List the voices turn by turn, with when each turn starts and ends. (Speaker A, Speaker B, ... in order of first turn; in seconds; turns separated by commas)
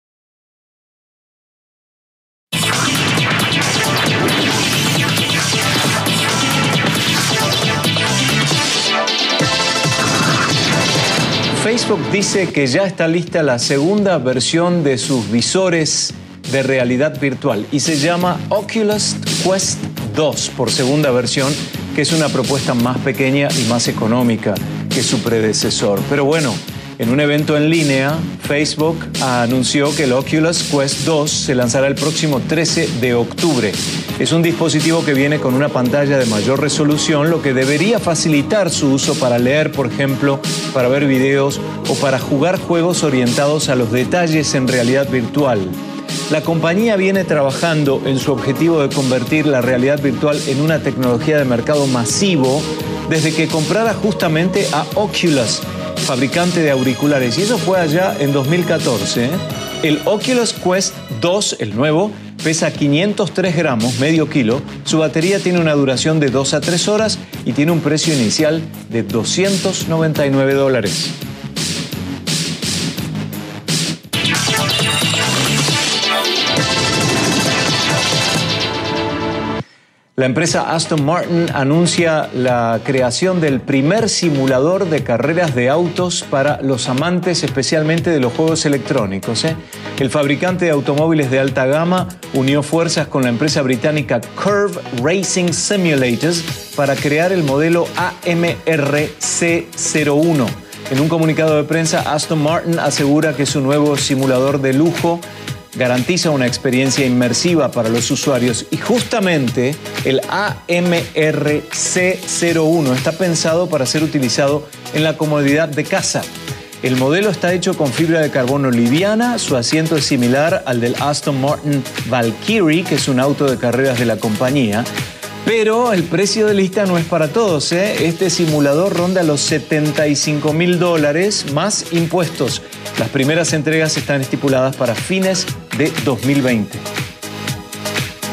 Speaker A: 11.5-45.8, Speaker A: 46.3-71.1, Speaker A: 80.2-116.3, Speaker A: 116.8-124.9, Speaker A: 125.4-136.8